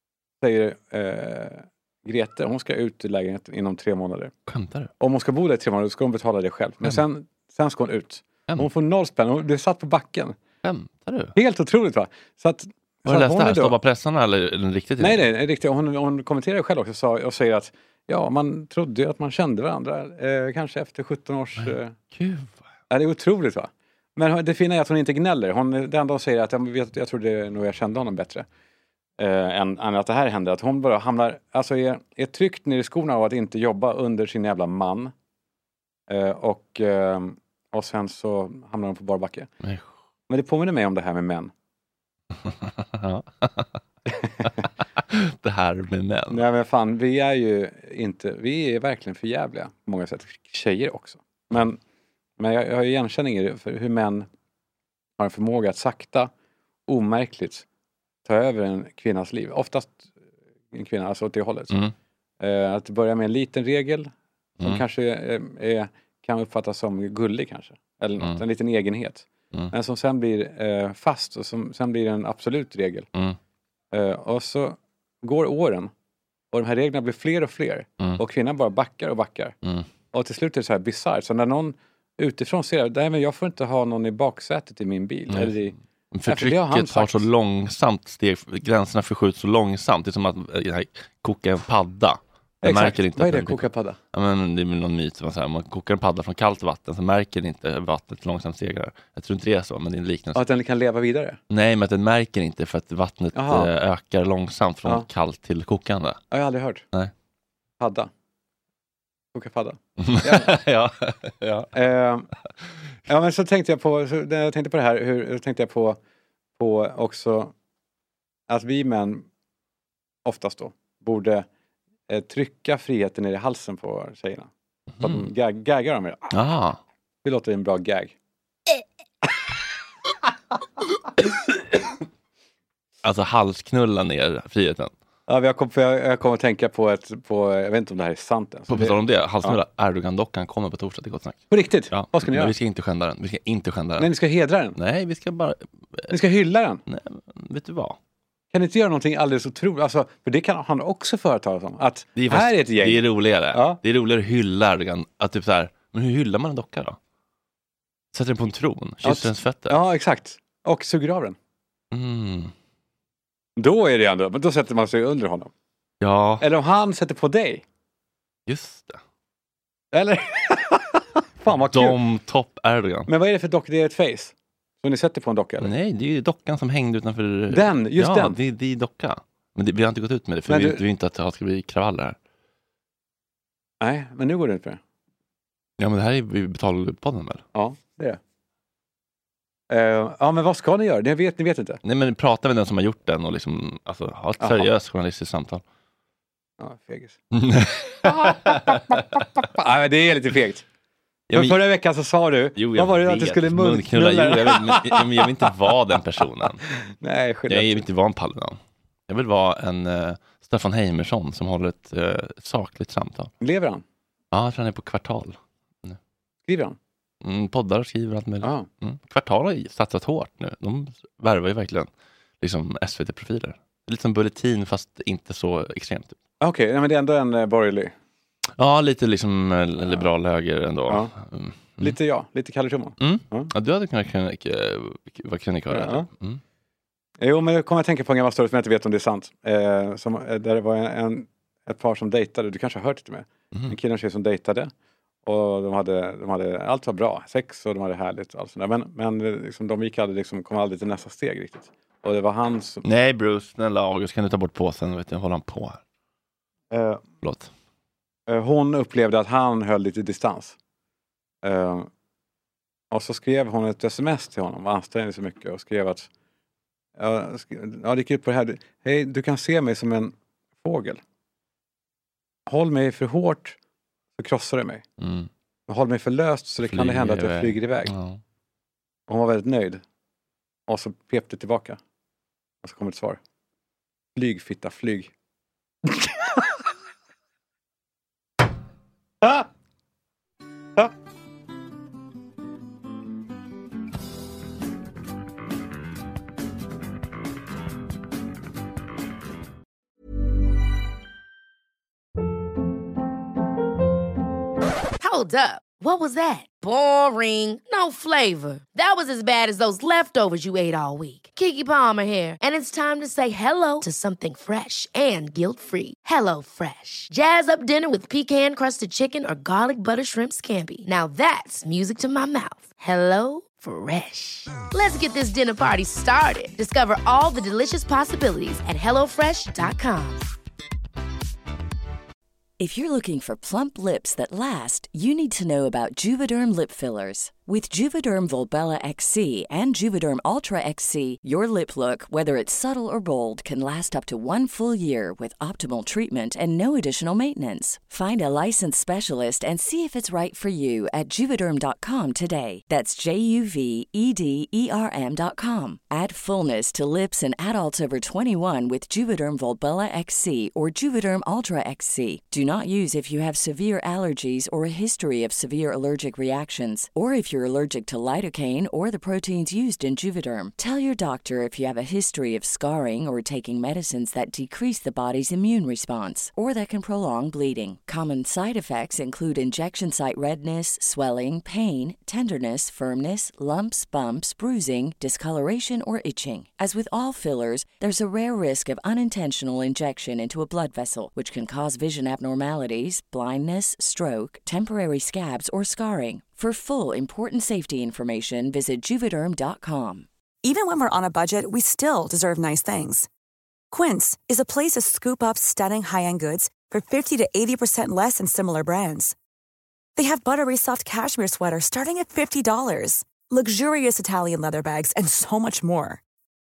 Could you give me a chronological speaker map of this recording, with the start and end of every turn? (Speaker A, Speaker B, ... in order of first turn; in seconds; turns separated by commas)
Speaker A: 0.4-4.3, Speaker B: 4.5-4.9, Speaker A: 5.0-10.3, Speaker B: 10.6-11.3, Speaker A: 11.4-13.7, Speaker B: 13.1-15.3, Speaker A: 15.0-21.9, Speaker B: 21.6-22.6, Speaker A: 22.9-28.4, Speaker A: 29.2-35.1, Speaker A: 36.1-39.5, Speaker B: 39.6-39.9, Speaker A: 40.3-41.5, Speaker B: 42.5-43.7, Speaker B: 45.1-46.5, Speaker A: 46.3-51.8, Speaker A: 52.4-54.2, Speaker A: 55.2-56.3, Speaker A: 56.9-57.6, Speaker A: 58.3-60.0, Speaker A: 60.7-61.7, Speaker A: 62.4-64.1, Speaker A: 64.6-73.0, Speaker A: 73.9-75.9, Speaker A: 76.5-79.5, Speaker A: 80.1-85.7, Speaker B: 85.3-100.4, Speaker A: 86.3-87.2, Speaker A: 92.6-94.0, Speaker A: 100.3-101.3, Speaker B: 101.5-106.2, Speaker A: 103.3-103.7, Speaker A: 106.3-106.8, Speaker A: 107.8-108.1, Speaker A: 109.3-110.4, Speaker B: 110.0-111.7, Speaker A: 111.8-112.2, Speaker A: 113.1-116.0, Speaker A: 116.6-117.5, Speaker A: 118.5-119.2, Speaker A: 120.2-121.5, Speaker A: 122.1-124.5, Speaker A: 125.0-126.2, Speaker B: 126.3-126.8, Speaker A: 127.2-128.1, Speaker B: 133.0-134.9, Speaker A: 135.3-138.9, Speaker B: 138.7-144.1, Speaker A: 141.5-142.5, Speaker A: 144.0-144.7, Speaker B: 144.7-146.2, Speaker A: 146.1-146.8, Speaker B: 146.9-148.0, Speaker A: 148.5-152.9, Speaker B: 152.2-157.0, Speaker A: 153.5-153.8, Speaker B: 158.1-159.8, Speaker A: 159.1-161.3, Speaker B: 161.9-162.5, Speaker A: 163.6-165.5, Speaker B: 166.0-166.5, Speaker A: 166.4-167.6, Speaker B: 168.5-169.0, Speaker A: 169.9-171.8, Speaker B: 171.6-173.1, Speaker A: 173.1-174.3, Speaker A: 174.8-175.6, Speaker B: 175.6-182.2, Speaker A: 177.5-178.3, Speaker A: 180.5-180.8, Speaker A: 183.8-184.8, Speaker B: 185.8-187.4, Speaker A: 187.5-188.2, Speaker A: 189.7-191.8, Speaker B: 191.8-195.6, Speaker A: 196.6-197.1, Speaker B: 197.3-199.0, Speaker A: 198.9-200.6, Speaker B: 201.3-201.6, Speaker A: 201.3-205.0, Speaker B: 202.5-206.6, Speaker A: 207.0-207.8, Speaker B: 207.5-208.6, Speaker B: 209.1-213.3, Speaker A: 213.4-213.8, Speaker B: 214.3-216.0, Speaker A: 216.5-216.8, Speaker B: 217.2-221.9, Speaker B: 222.4-226.1, Speaker A: 226.4-227.9, Speaker B: 228.6-231.9, Speaker A: 231.8-233.4, Speaker B: 233.0-236.4, Speaker A: 235.7-236.1, Speaker A: 237.2-244.7, Speaker A: 245.3-252.8, Speaker B: 252.8-255.8, Speaker A: 256.7-257.0, Speaker B: 257.2-257.5, Speaker A: 258.3-260.5, Speaker A: 261.4-261.9, Speaker A: 262.9-266.1, Speaker A: 267.0-270.1, Speaker A: 270.6-271.0, Speaker A: 272.5-273.5, Speaker A: 274.2-274.8, Speaker B: 275.0-275.3, Speaker A: 275.7-277.9, Speaker B: 276.6-278.2, Speaker A: 279.1-279.8, Speaker A: 280.7-281.8, Speaker A: 282.6-283.2, Speaker A: 284.1-285.1, Speaker A: 289.2-289.5, Speaker C: 305.0-330.3, Speaker D: 332.6-400.1, Speaker E: 400.4-403.1, Speaker E: 403.7-409.1, Speaker E: 409.9-416.0